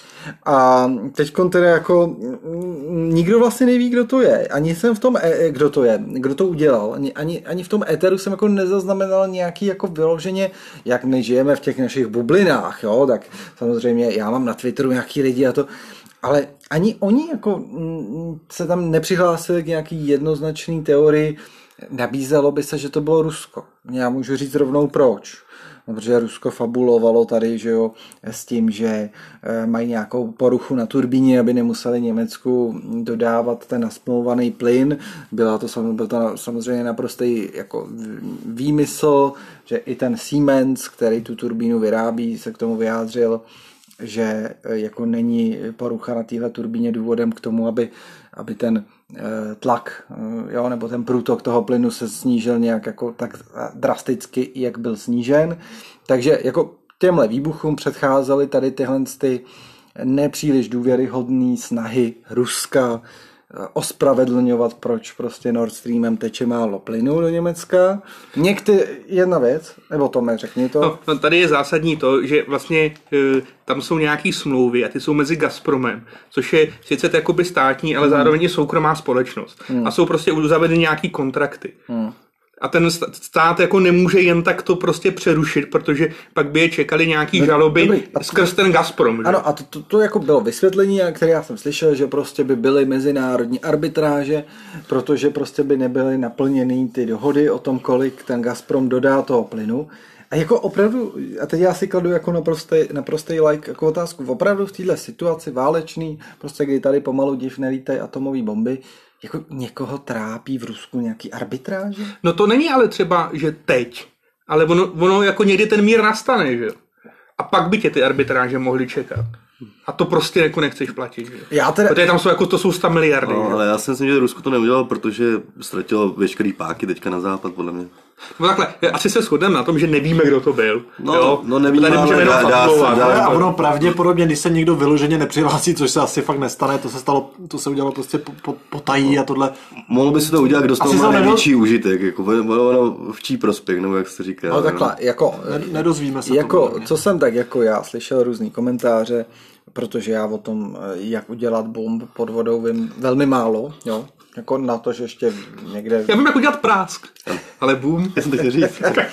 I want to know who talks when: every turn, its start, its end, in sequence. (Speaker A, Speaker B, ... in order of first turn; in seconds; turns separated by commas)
Speaker A: 0.4-15.7, Speaker A: 16.2-43.4, Speaker A: 44.0-59.4, Speaker A: 60.0-71.0, Speaker B: 70.8-81.8, Speaker A: 78.0-78.3, Speaker A: 79.7-79.9, Speaker A: 81.9-82.1, Speaker B: 82.6-89.4, Speaker A: 87.3-88.5, Speaker A: 89.2-112.1, Speaker B: 112.2-116.8, Speaker B: 117.4-119.3, Speaker B: 119.9-123.6, Speaker A: 121.5-122.1, Speaker C: 123.2-127.9, Speaker B: 128.4-133.5, Speaker C: 131.0-133.6, Speaker D: 132.1-139.6, Speaker C: 139.9-144.9, Speaker D: 140.8-141.5, Speaker A: 144.5-156.2, Speaker D: 145.5-146.9, Speaker B: 156.1-158.2, Speaker C: 158.2-159.0